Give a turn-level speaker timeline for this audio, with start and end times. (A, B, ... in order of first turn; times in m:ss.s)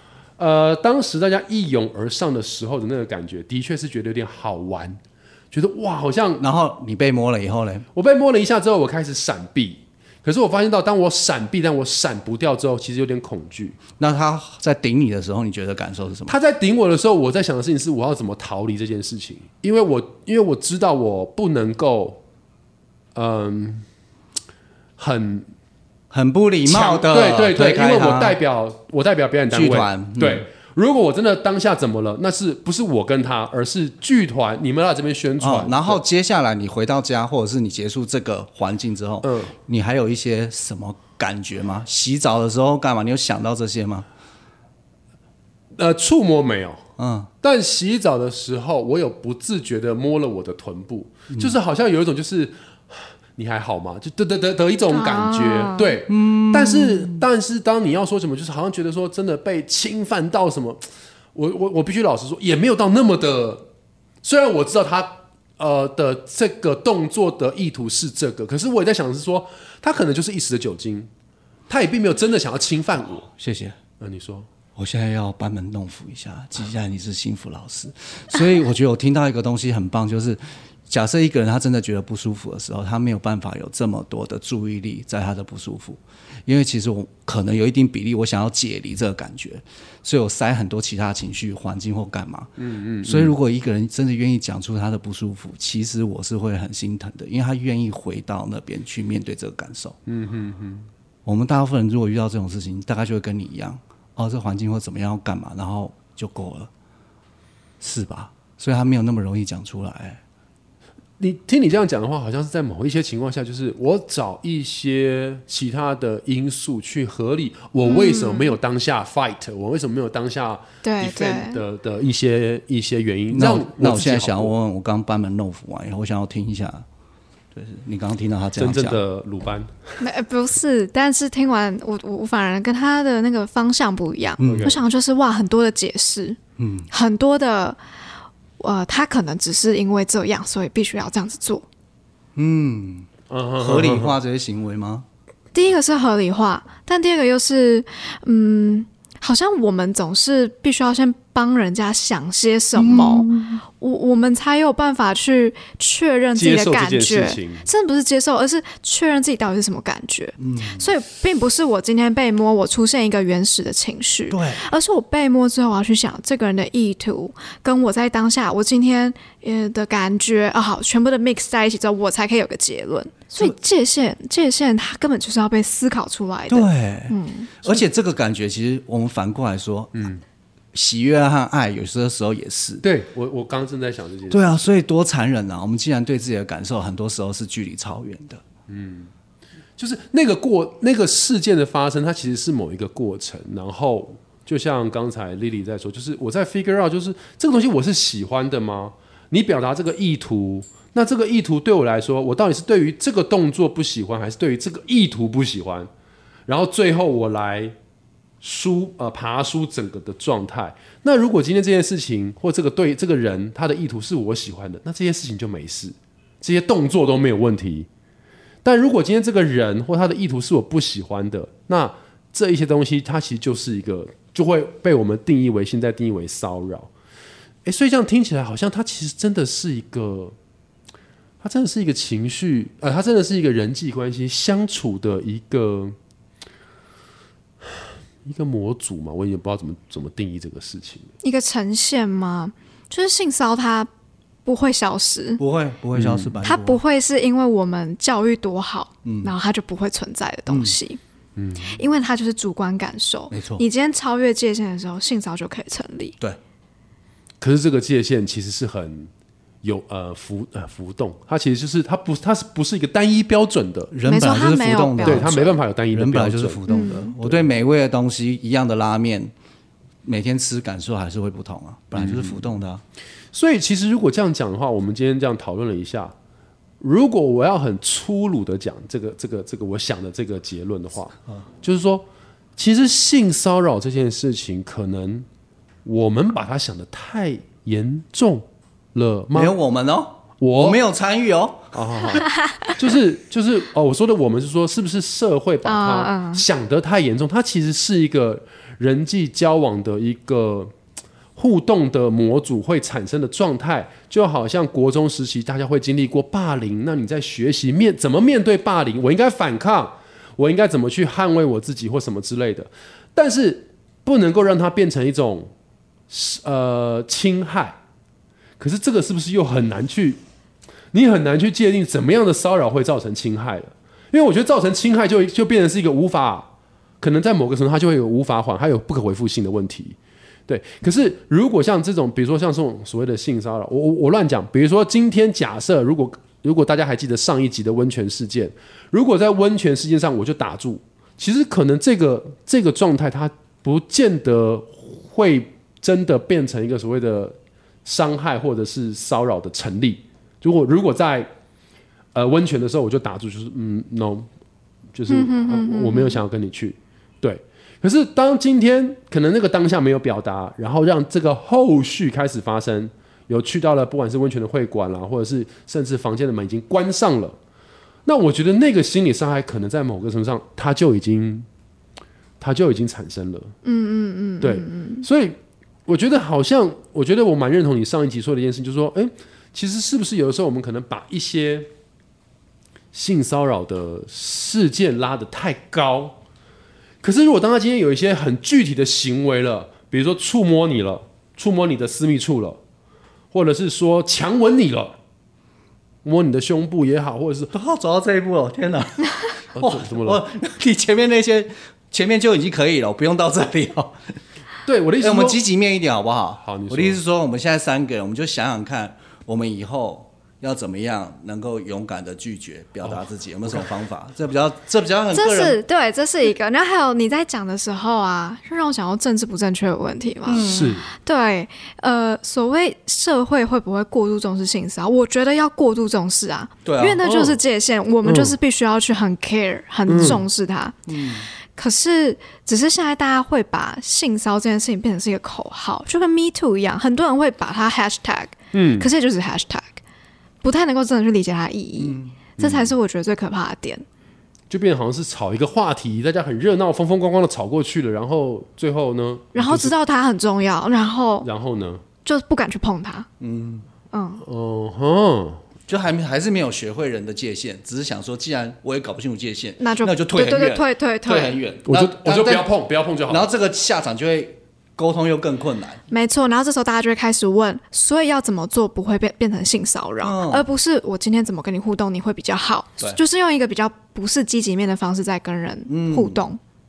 0:00.4-0:05.0 A
0:05.5-0:06.4 A
0:06.4-0:07.9 B
0:08.0-0:13.8 A
0:14.0-0:16.3 B
0:16.3-0:22.2 A
0:23.2-0:23.9 A
0:25.0-0:25.5 A
0:26.1-0:28.4 B
0:26.6-0:36.0 A
0:29.5-0:30.5 B
0:35.4-0:44.1 B
0:39.2-0:39.5 A
0:45.8-0:46.8 A
0:47.0-0:47.3 B
0:47.4-1:03.7 A
0:54.9-0:56.0 C
0:56.1-0:57.2 B
1:04.2-1:11.1 A
1:11.7-1:13.3 A
1:13.3-1:13.8 B
1:14.0-1:14.5 A
1:14.8-1:32.5 B
1:32.6-1:33.4 A
1:33.0-1:40.0 B
1:40.1-1:40.9 A
1:41.2-1:46.7 B
1:47.8-1:50.2 B
1:51.2-2:04.5 A
1:57.8-1:58.5 C
2:00.8-2:01.6 C
2:03.3-2:06.8 B
2:07.5-2:09.0 B
2:08.6-2:10.0 A
2:10.0-2:16.4 C
2:14.4-2:14.8 B
2:14.5-2:14.8 A
2:16.6-2:16.9 B
2:16.9-2:17.8 C
2:18.6-2:21.7 C
2:22.4-2:25.0 B
2:23.3-2:24.2 A
2:25.5-2:57.5 C
2:32.8-2:33.6 B
2:36.4-2:37.7 A
2:40.4-2:40.9 B
2:44.3-2:44.7 B
2:56.5-3:00.0 B
2:59.9-3:00.2 A
3:00.7-3:02.8 B
3:02.8-3:04.8 A
3:04.3-3:08.4 B
3:08.7-3:09.1 A
3:09.8-3:25.9 A
3:26.5-3:27.8 A
3:28.4-3:37.9 A
3:38.6-3:46.9 A
3:47.6-3:50.4 A
3:51.4-3:56.0 A
3:57.6-4:01.1 A
4:01.2-4:03.9 C
4:04.4-4:05.4 C
4:05.4-4:06.8 B
4:06.0-4:06.4 A
4:06.4-4:11.0 C
4:09.0-4:09.3 B
4:10.5-4:10.8 B
4:11.4-4:11.8 A
4:11.6-4:16.2 C
4:13.3-4:13.6 B
4:17.4-4:19.1 A
4:19.6-4:23.9 A
4:23.9-4:29.3 B
4:24.0-4:25.5 C
4:25.0-4:26.6 A
4:26.7-4:27.1 C
4:27.2-4:27.5 A
4:30.0-4:32.8 B
4:32.0-4:32.4 A
4:33.3-4:36.2 A
4:36.8-4:45.3 A
4:45.8-4:49.6 A
4:49.3-4:51.7 B
4:50.4-4:50.8 A
4:51.7-5:00.8 A
4:55.6-4:56.5 C
5:01.4-5:15.5 A
5:16.1-5:17.8 A
5:18.6-5:20.2 A
5:20.9-5:30.0 A
5:30.5-5:51.3 A
5:52.1-5:54.3 A
5:54.9-6:07.4 A
5:55.1-5:56.2 C
6:08.0-6:11.5 A
6:12.4-6:13.5 A
6:13.6-6:15.1 C
6:14.4-6:21.7 A
6:22.9-6:26.2 A
6:27.0-6:32.6 A
6:33.3-6:35.0 A
6:36.0-6:37.5 A
6:37.5-6:44.0 B
6:39.5-6:40.2 A
6:44.7-6:45.4 A
6:45.0-6:55.6 B
6:46.4-6:47.0 A
6:55.1-7:19.8 C
7:00.3-7:00.8 B
7:00.4-7:00.9 A
7:06.6-7:07.0 B
7:07.0-7:07.4 A
7:08.0-7:08.4 A
7:09.9-7:10.2 A
7:10.9-7:11.3 B
7:18.5-7:18.9 A
7:20.4-7:23.8 C
7:21.8-7:22.3 B
7:22.4-7:22.7 A
7:24.5-7:29.7 A
7:29.3-7:31.3 C
7:31.2-7:31.8 A
7:32.0-7:33.1 C
7:33.2-7:33.7 B
7:33.9-7:34.2 C
7:34.2-7:35.4 A
7:35.7-7:42.5 B
7:39.6-7:41.4 C
7:41.6-7:43.3 A
7:43.1-7:45.8 B
7:45.9-7:56.4 C
7:50.0-7:50.5 B
7:55.7-7:56.2 B